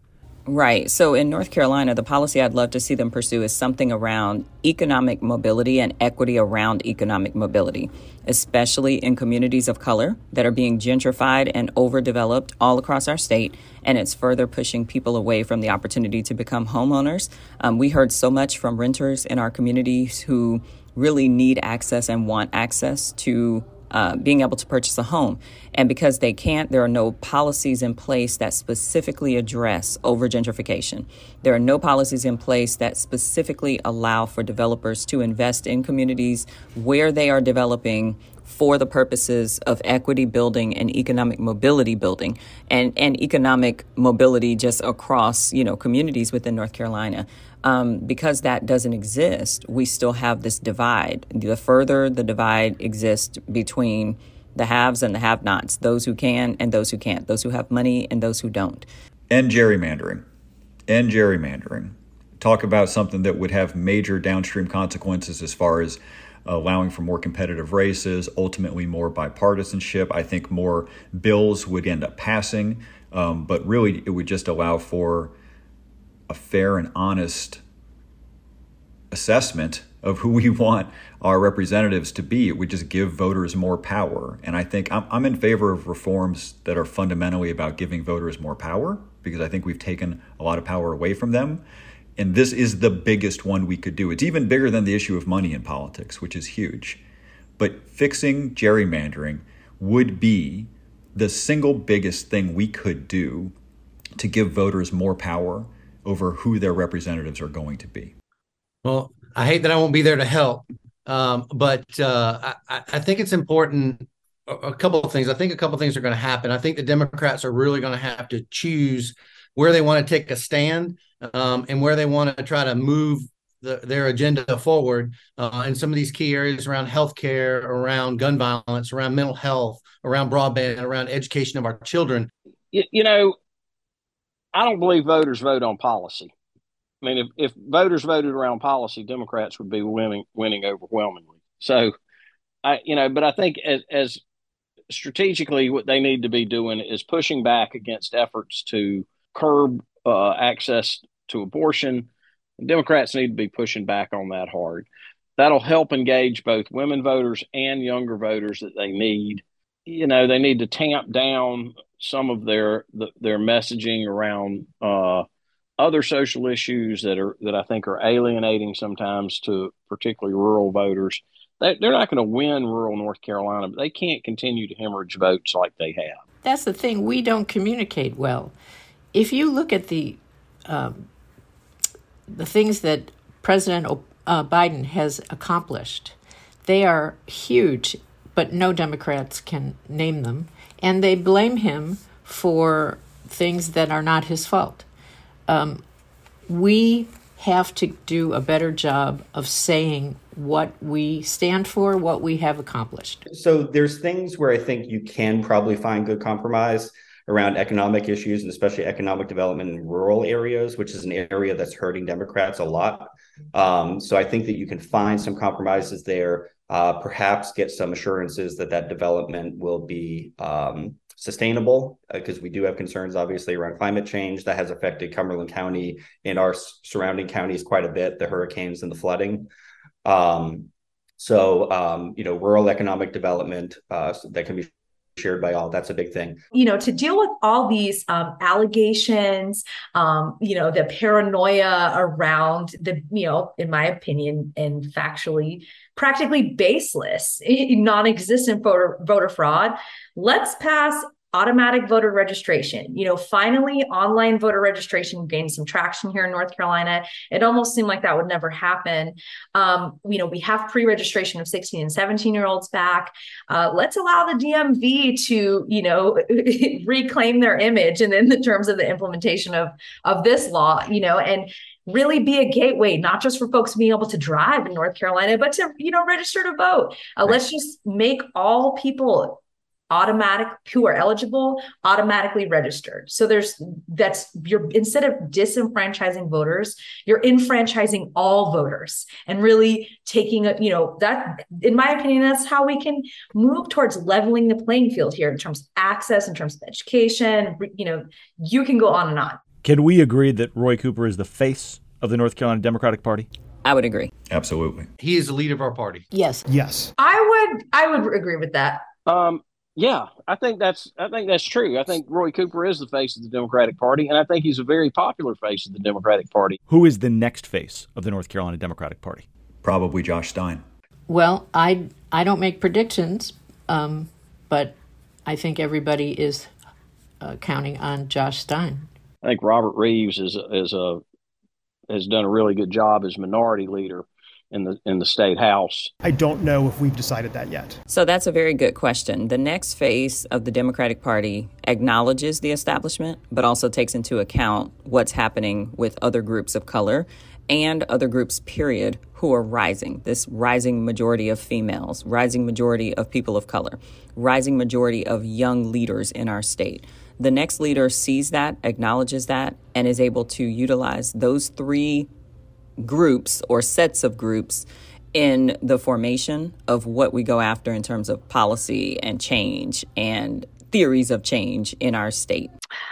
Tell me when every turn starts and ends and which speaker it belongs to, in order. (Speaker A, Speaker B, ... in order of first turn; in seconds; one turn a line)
Speaker A: 0.5-58.9
Speaker B: 59.3-60.2
Speaker B: 60.9-75.3
Speaker B: 76.3-77.6
Speaker B: 79.1-91.6
Speaker B: 92.2-97.0
Speaker B: 97.6-103.5
Speaker B: 104.2-108.1
Speaker C: 108.8-132.3
Speaker D: 132.7-133.4
Speaker D: 134.5-136.3
Speaker D: 137.0-142.0
Speaker D: 142.6-144.2
Speaker D: 144.9-154.9
Speaker D: 155.4-165.3
Speaker D: 165.8-176.2
Speaker E: 176.4-178.6
Speaker E: 179.1-181.1
Speaker E: 182.3-194.9
Speaker E: 195.5-195.8
Speaker E: 196.5-203.2
Speaker F: 203.3-229.5
Speaker F: 230.1-236.4
Speaker G: 236.5-299.4
Speaker H: 299.6-303.3
Speaker A: 303.6-304.1
Speaker B: 304.3-304.9
Speaker C: 305.0-306.1
Speaker E: 306.1-306.4
Speaker I: 306.5-306.9
Speaker G: 307.0-308.9
Speaker D: 309.1-316.6
Speaker H: 316.7-319.2
Speaker B: 319.6-320.6
Speaker E: 321.1-324.8
Speaker E: 325.3-326.5
Speaker E: 327.2-328.9
Speaker D: 329.2-331.0
Speaker D: 331.9-335.9
Speaker I: 336.0-337.8
Speaker A: 337.9-362.1
Speaker A: 362.8-372.5